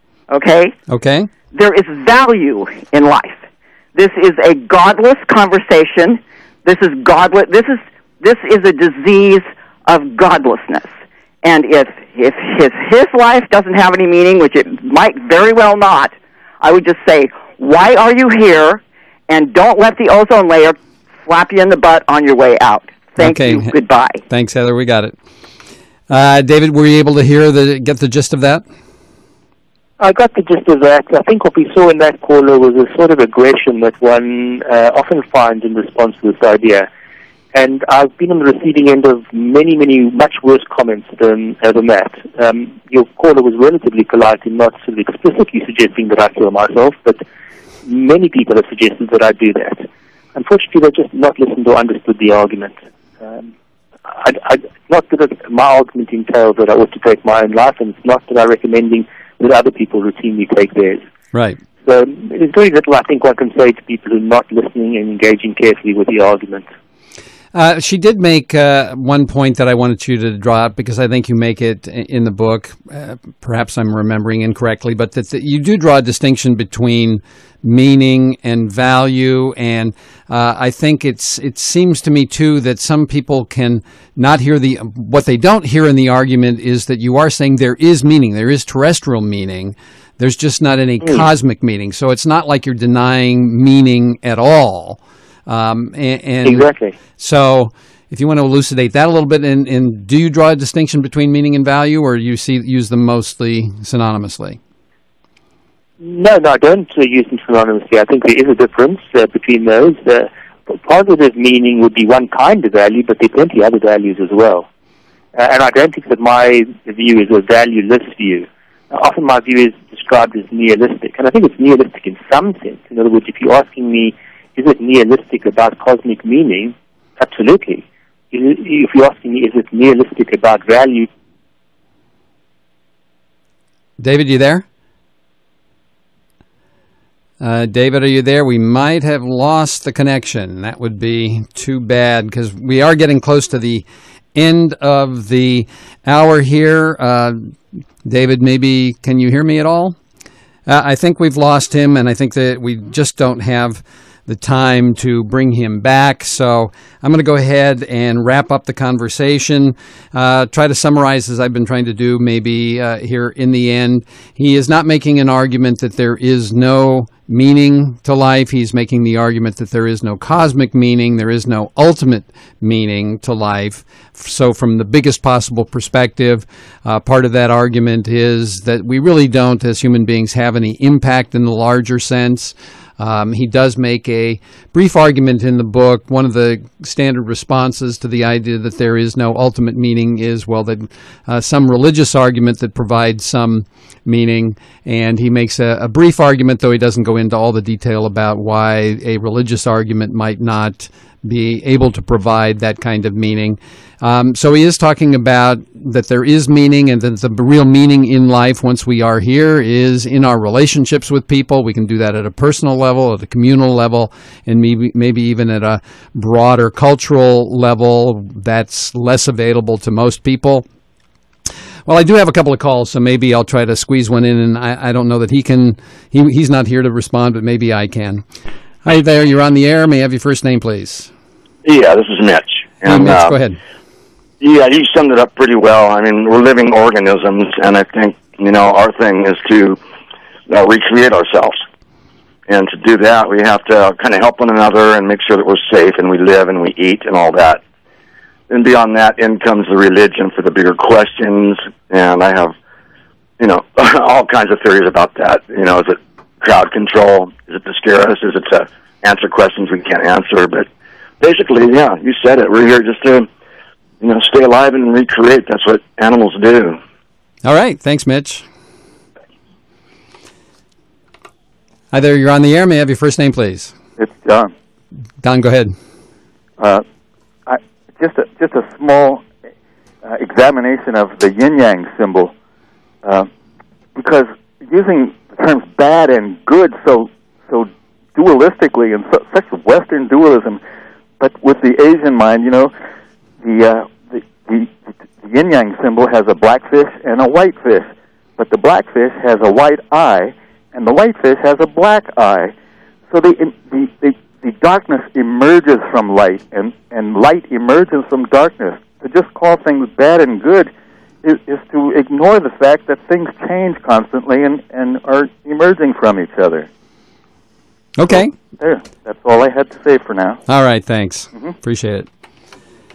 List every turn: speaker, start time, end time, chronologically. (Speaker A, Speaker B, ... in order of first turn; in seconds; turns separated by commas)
Speaker A: 0.3-0.8, Speaker B: 0.9-1.3, Speaker A: 1.5-3.4, Speaker A: 4.0-10.9, Speaker A: 11.4-24.2, Speaker B: 23.2-23.7, Speaker B: 24.3-25.2, Speaker B: 26.1-28.6, Speaker C: 30.0-36.9, Speaker C: 37.5-47.2, Speaker C: 47.8-53.5, Speaker C: 54.1-61.0, Speaker B: 61.3-61.6, Speaker C: 61.8-66.7, Speaker B: 67.5-104.6, Speaker C: 96.4-97.0, Speaker C: 106.0-114.7, Speaker C: 115.3-131.1, Speaker B: 134.0-134.7, Speaker B: 137.4-150.0, Speaker B: 150.7-220.7, Speaker B: 221.9-228.2, Speaker B: 228.8-231.1, Speaker D: 231.7-233.4, Speaker B: 232.8-233.6, Speaker D: 234.4-239.8, Speaker D: 240.5-241.6, Speaker D: 242.5-247.6, Speaker D: 248.5-252.6, Speaker D: 253.4-260.7, Speaker D: 261.2-263.3, Speaker D: 264.0-266.8, Speaker B: 267.4-268.4, Speaker B: 271.9-273.7, Speaker E: 274.0-274.5, Speaker B: 275.2-275.8, Speaker E: 276.6-276.8, Speaker E: 277.5-279.2, Speaker E: 280.0-282.3, Speaker E: 284.0-290.6, Speaker E: 291.2-292.7, Speaker E: 293.4-302.5, Speaker E: 303.1-310.7, Speaker E: 311.2-316.7, Speaker B: 318.0-318.3, Speaker E: 318.2-320.4, Speaker B: 320.5-322.1